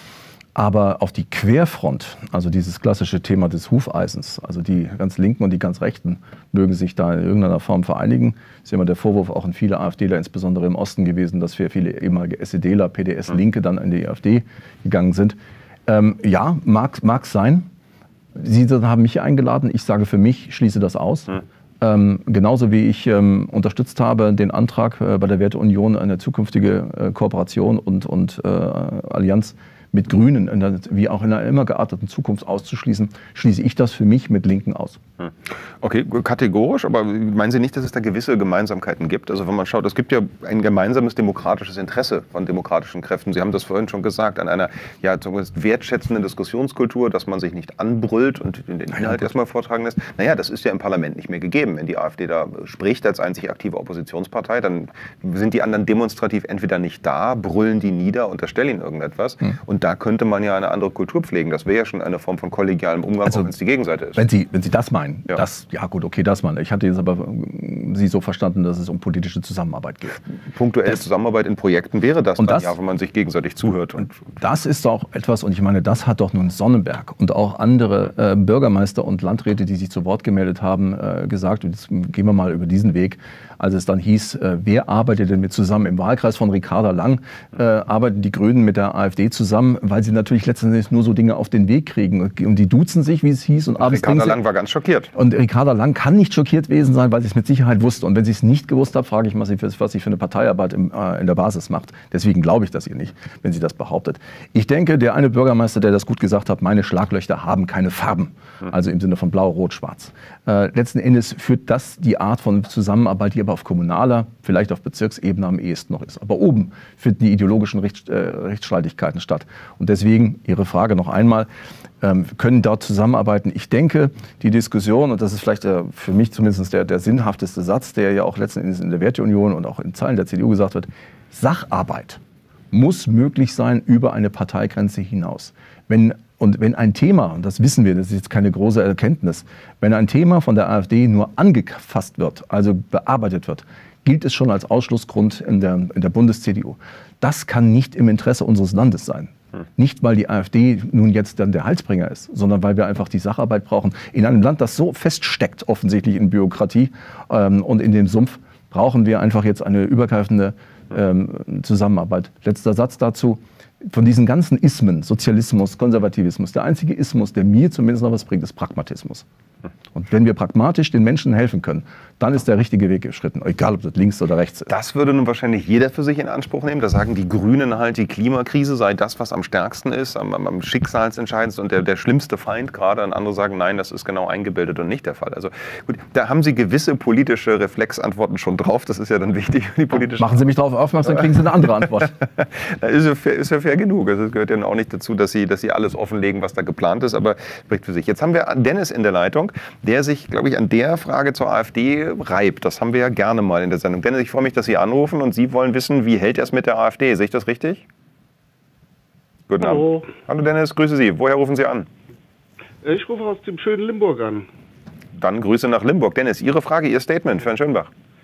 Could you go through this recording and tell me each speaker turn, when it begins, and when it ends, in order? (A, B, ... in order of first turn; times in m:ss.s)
0:00.6-0:17.7 A
0:18.4-0:35.0 A
0:35.8-1:04.2 B
0:48.9-0:49.3 A
1:03.2-1:03.5 A
1:04.2-1:10.2 A
1:10.5-1:14.2 B
1:12.4-1:12.8 A
1:14.3-1:34.4 A
1:33.8-1:35.1 B
1:35.1-2:01.5 A
2:02.0-2:12.2 A
2:12.7-2:49.3 A
2:49.9-2:54.7 A
2:54.7-3:10.4 B
3:10.2-3:12.1 A
3:12.4-3:27.8 B
3:29.5-3:31.9 B
3:29.6-3:30.1 C
3:32.8-3:34.5 C
3:35.2-3:37.9 B